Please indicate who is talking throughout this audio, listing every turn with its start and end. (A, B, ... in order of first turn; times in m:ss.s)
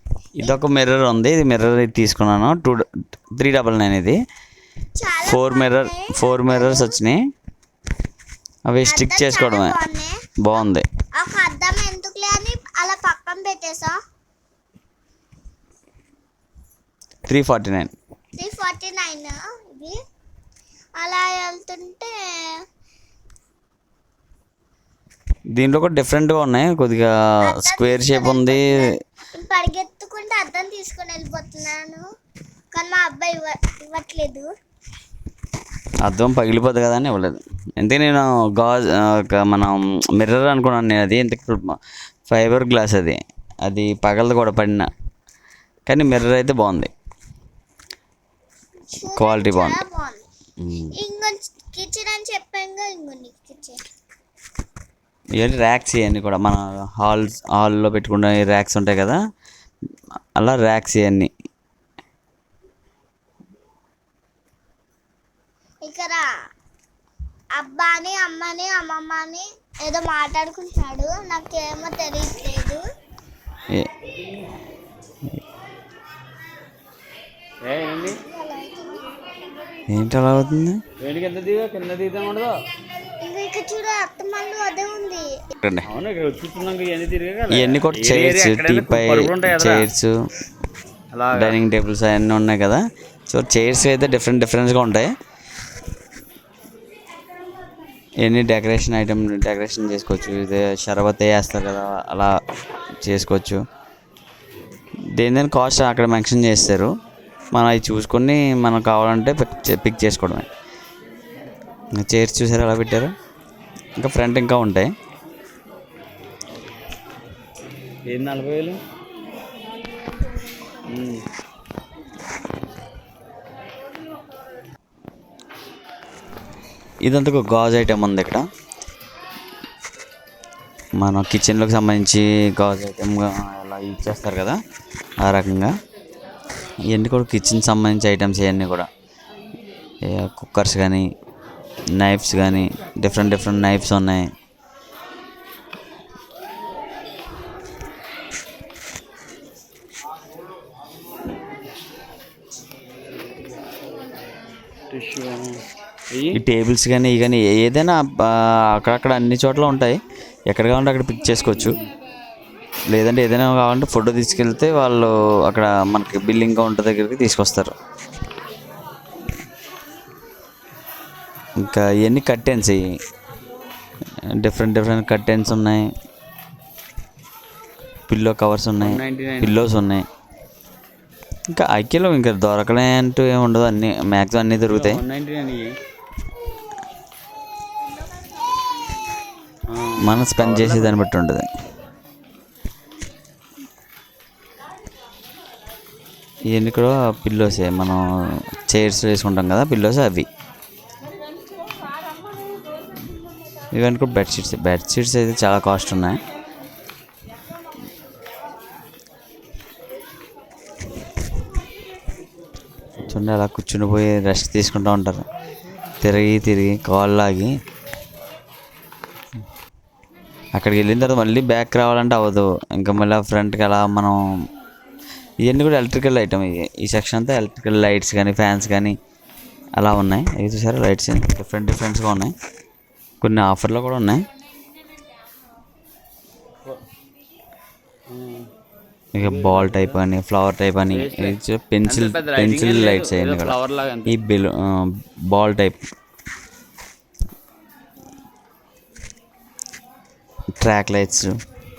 0:00.4-0:04.2 A
0:05.0-0:07.0 B
0:05.3-0:07.2 A
0:08.7-0:09.8 A
0:08.8-0:10.3 B
0:10.4-0:10.8 A
0:11.2-0:14.0 B
0:17.2-0:17.9 A
0:18.4-0:20.0 B
0:21.0-0:22.6 B
0:25.5-0:28.9 A
0:27.4-0:32.1 B
0:32.7-0:34.5 B
0:36.0-0:41.8 A
0:42.3-0:44.9 A
0:45.9-0:46.9 A
0:48.9-0:50.3 B
0:49.2-0:49.8 A
0:50.6-0:50.9 A
0:50.9-0:53.8 B
0:55.4-0:59.2 A
1:00.4-1:01.3 A
1:05.8-1:06.3 B
1:07.5-1:12.8 B
1:17.6-1:18.2 C
1:18.2-1:19.0 B
1:19.9-1:20.8 A
1:21.0-1:22.6 C
1:23.2-1:25.4 B
1:25.6-1:25.9 A
1:25.8-1:29.8 C
1:27.5-1:30.1 A
1:31.1-1:31.6 C
1:31.3-1:35.1 A
1:38.2-1:42.3 A
1:43.0-1:43.6 A
1:45.2-1:46.9 A
1:47.5-1:50.5 A
1:52.0-1:53.1 A
1:54.0-1:54.9 A
1:58.1-1:58.8 C
2:00.8-2:01.2 C
2:07.0-2:08.4 A
2:11.0-2:14.6 A
2:15.2-2:15.7 A
2:16.9-2:18.9 A
2:20.0-2:21.1 A
2:22.0-2:24.3 A
2:34.9-2:35.6 C
2:36.1-2:36.4 C
2:36.3-2:40.0 A
2:40.5-2:41.8 A
2:42.9-2:47.7 A
2:51.6-2:52.8 A
2:54.4-2:55.8 A
2:58.1-3:00.0 A
2:58.8-2:59.7 C
3:01.5-3:05.0 A
3:04.7-3:05.8 C
3:09.7-3:11.0 C
3:10.0-3:11.4 A
3:16.5-3:20.2 A
3:23.7-3:26.2 A
3:33.1-3:35.2 A
3:36.0-3:37.5 A
3:40.5-3:44.2 A
3:45.4-3:48.9 A
3:49.8-3:52.3 A
3:53.2-3:54.2 A
3:58.1-3:58.5 C
3:59.1-4:05.8 A
3:59.2-4:00.0 C
4:00.9-4:01.4 C
4:01.9-4:04.2 C
4:10.6-4:11.4 A